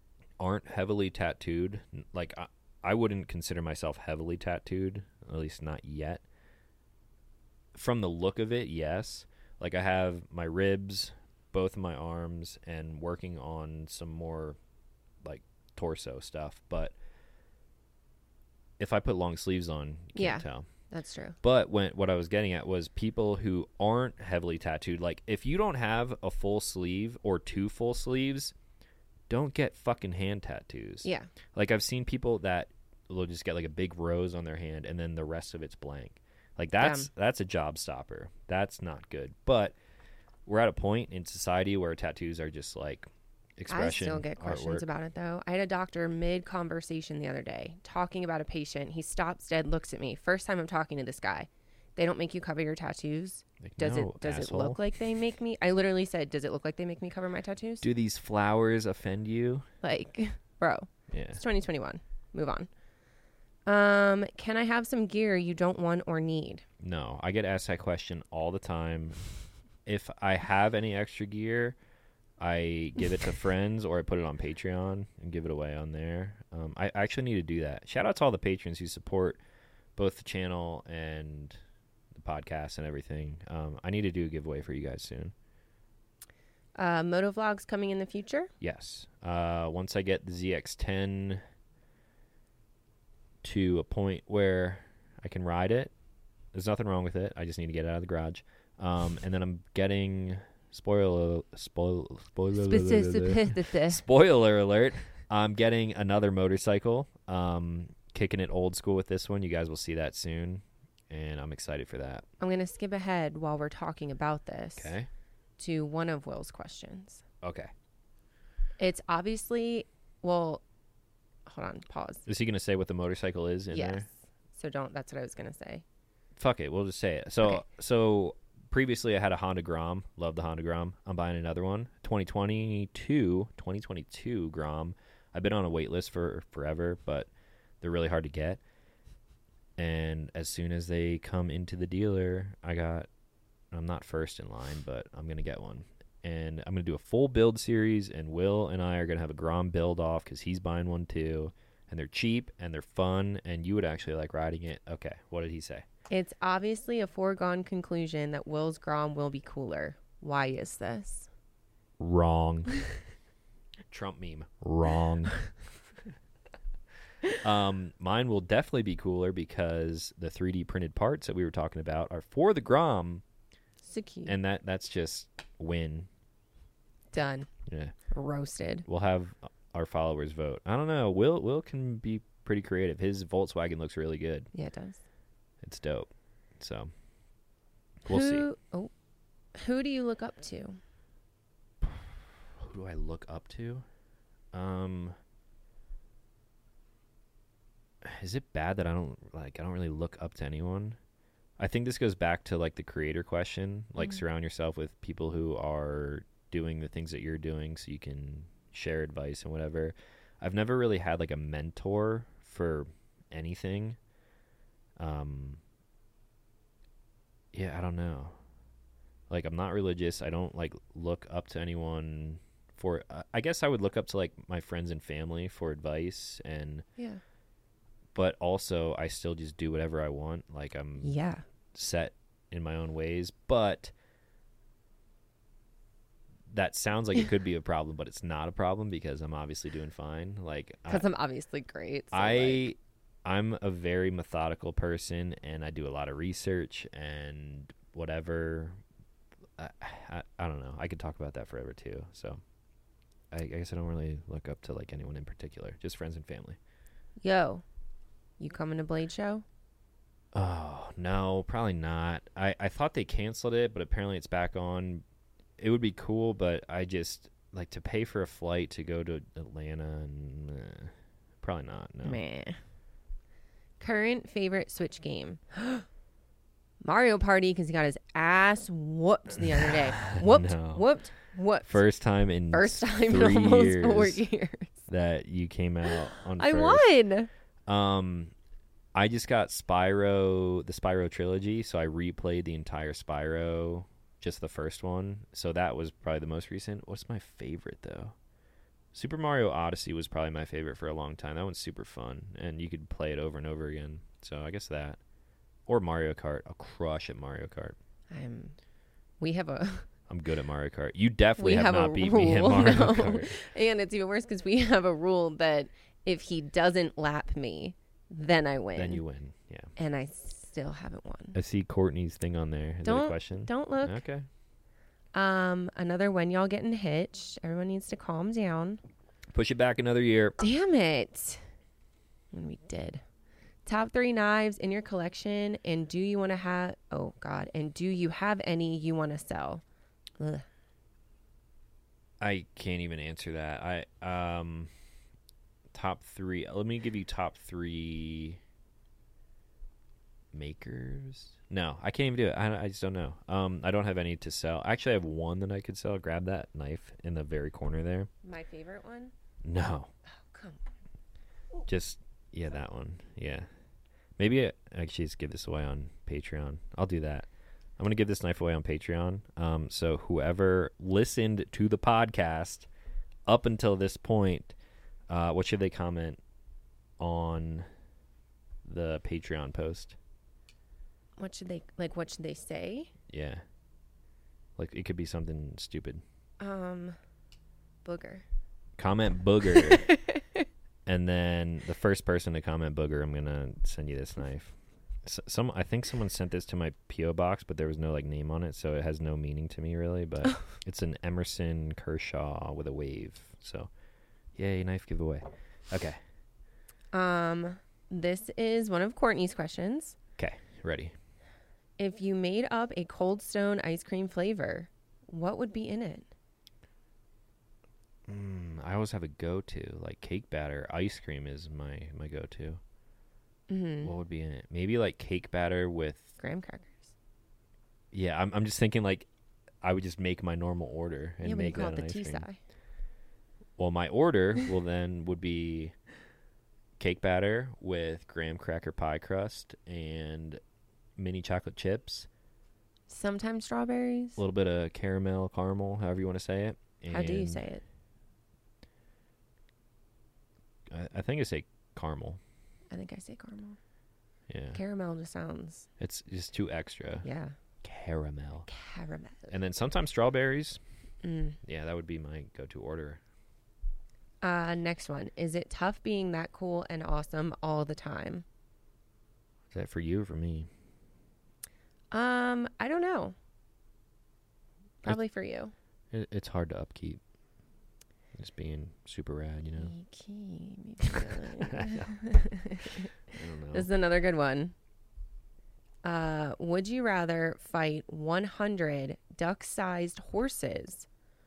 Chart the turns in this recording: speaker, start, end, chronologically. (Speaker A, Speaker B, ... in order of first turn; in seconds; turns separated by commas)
Speaker A: 0.4-6.2, Speaker A: 7.7-14.6, Speaker A: 15.2-16.9, Speaker A: 18.8-20.7, Speaker B: 20.1-21.4, Speaker A: 21.4-28.5, Speaker A: 29.3-39.7, Speaker B: 31.0-31.3, Speaker B: 36.8-37.1, Speaker A: 40.5-44.9, Speaker B: 43.7-57.9, Speaker A: 53.6-54.8, Speaker A: 57.8-59.6, Speaker B: 59.8-62.7, Speaker A: 61.1-61.4, Speaker B: 63.6-66.6, Speaker A: 66.8-69.2, Speaker A: 69.8-71.8, Speaker A: 72.4-79.4, Speaker A: 80.0-81.6, Speaker A: 82.1-85.3, Speaker B: 86.8-88.5, Speaker A: 88.6-91.4, Speaker A: 93.4-95.9, Speaker A: 96.5-112.2, Speaker B: 102.6-104.0, Speaker B: 112.4-114.9, Speaker A: 114.8-115.1, Speaker B: 115.6-117.2, Speaker A: 117.4-117.7, Speaker B: 118.8-120.6, Speaker B: 121.5-122.2, Speaker A: 122.2-124.1, Speaker B: 123.7-125.8, Speaker A: 126.4-137.3, Speaker A: 137.8-138.6, Speaker A: 139.8-143.1, Speaker A: 143.7-155.8, Speaker B: 156.1-161.3, Speaker A: 162.0-162.7, Speaker A: 163.9-165.4, Speaker A: 167.3-173.2, Speaker B: 173.8-174.3, Speaker A: 174.2-176.1, Speaker B: 177.1-177.5, Speaker A: 177.7-177.9, Speaker B: 178.1-178.9, Speaker A: 178.9-184.5, Speaker B: 184.5-185.0, Speaker A: 185.6-186.9, Speaker A: 188.0-188.4, Speaker B: 188.1-188.9, Speaker B: 189.5-190.8, Speaker A: 191.8-193.8, Speaker A: 194.5-195.1, Speaker A: 198.0-201.0, Speaker A: 201.6-214.0, Speaker A: 215.0-215.6, Speaker A: 217.5-218.3, Speaker A: 219.3-226.8, Speaker A: 228.1-231.1, Speaker B: 231.0-231.4, Speaker A: 231.7-233.9, Speaker A: 236.5-241.0, Speaker B: 240.9-242.7, Speaker A: 242.1-248.8, Speaker A: 249.6-252.4, Speaker A: 253.3-256.6, Speaker B: 257.2-257.6, Speaker B: 258.4-259.4, Speaker A: 260.3-265.0, Speaker A: 265.6-272.2, Speaker B: 272.0-272.6, Speaker B: 273.8-275.8, Speaker B: 276.8-281.8, Speaker A: 279.6-280.9, Speaker A: 281.7-284.2, Speaker B: 282.5-284.8, Speaker A: 284.9-286.9, Speaker B: 286.1-287.3, Speaker A: 287.7-288.3, Speaker A: 288.9-298.1, Speaker A: 298.9-305.0, Speaker A: 305.7-307.8, Speaker B: 308.1-308.6, Speaker B: 309.2-309.9, Speaker A: 310.1-313.3, Speaker B: 311.4-319.0, Speaker A: 318.8-319.7, Speaker B: 319.8-321.4, Speaker A: 321.3-324.3, Speaker B: 322.8-324.0, Speaker B: 325.1-328.8, Speaker A: 329.3-330.4, Speaker B: 330.4-331.4, Speaker B: 332.3-333.0, Speaker B: 333.6-339.6, Speaker B: 340.2-340.4, Speaker A: 342.2-344.7, Speaker A: 345.7-348.4, Speaker A: 350.3-358.1, Speaker B: 358.2-359.1, Speaker A: 359.4-359.9, Speaker B: 360.2-360.6, Speaker A: 361.7-363.4, Speaker A: 364.2-367.3, Speaker A: 367.8-372.7, Speaker A: 373.3-374.5, Speaker A: 375.1-376.2, Speaker A: 377.0-377.6, Speaker A: 378.6-379.9, Speaker B: 381.2-382.9, Speaker A: 383.1-383.4, Speaker A: 384.6-386.0, Speaker B: 386.4-387.0, Speaker B: 387.8-388.2, Speaker A: 388.8-389.9, Speaker B: 389.6-390.2, Speaker A: 390.9-403.7, Speaker A: 404.3-406.0, Speaker B: 406.9-409.9, Speaker A: 410.2-410.9, Speaker B: 411.8-416.1, Speaker A: 418.1-422.6, Speaker B: 423.5-423.9, Speaker A: 423.8-426.2, Speaker B: 426.2-426.9, Speaker A: 427.9-429.1, Speaker A: 429.6-432.2, Speaker B: 431.2-432.4, Speaker A: 433.6-435.7, Speaker A: 436.8-440.4, Speaker A: 441.0-442.1, Speaker B: 442.9-444.2, Speaker A: 444.2-447.4, Speaker B: 446.9-447.6, Speaker A: 450.7-452.2, Speaker B: 452.7-453.6, Speaker A: 454.3-454.6, Speaker B: 454.5-455.7, Speaker A: 455.8-457.1, Speaker B: 457.0-457.4, Speaker A: 457.6-458.5, Speaker B: 458.5-459.4, Speaker A: 459.3-460.6, Speaker B: 461.0-461.4, Speaker A: 461.4-463.0, Speaker B: 464.2-468.2, Speaker A: 469.5-470.5, Speaker B: 471.9-473.1, Speaker B: 474.8-475.5, Speaker A: 475.9-477.0, Speaker A: 478.1-479.7, Speaker B: 479.5-482.9, Speaker A: 481.5-481.8, Speaker A: 483.1-483.7, Speaker B: 483.5-484.5, Speaker B: 485.8-490.9